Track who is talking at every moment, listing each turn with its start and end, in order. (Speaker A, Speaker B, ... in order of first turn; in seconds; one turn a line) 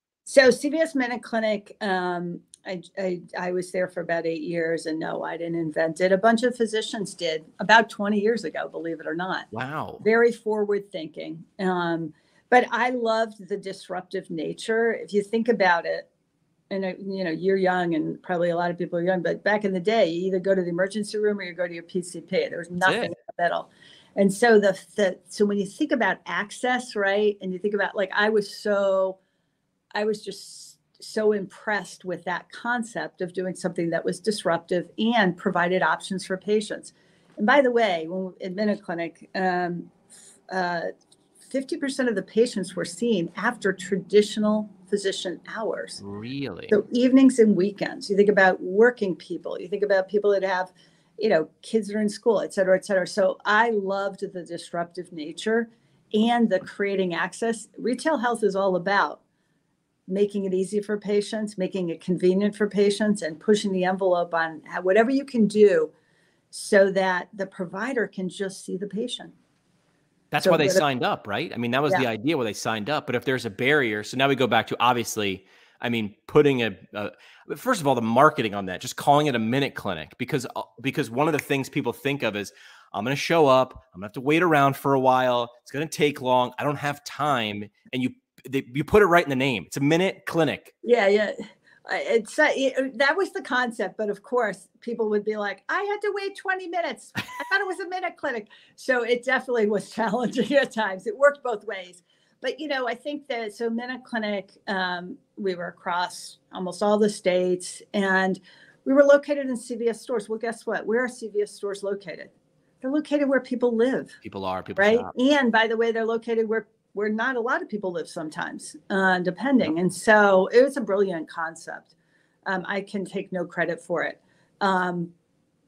Speaker A: 0.3-9.5
Speaker B: 9.5-10.0
Speaker A: 10.0-16.1
Speaker A: 16.7-29.2
Speaker B: 22.8-23.1
Speaker A: 29.9-39.9
Speaker A: 40.5-40.9
Speaker A: 41.4-46.0
Speaker B: 46.0-46.8
Speaker A: 46.7-59.2
Speaker A: 60.1-65.9
Speaker A: 66.5-69.3
Speaker B: 70.3-90.7
Speaker A: 70.4-70.8
Speaker A: 90.8-114.1
Speaker B: 114.2-115.1
Speaker A: 114.8-121.9
Speaker A: 122.5-125.1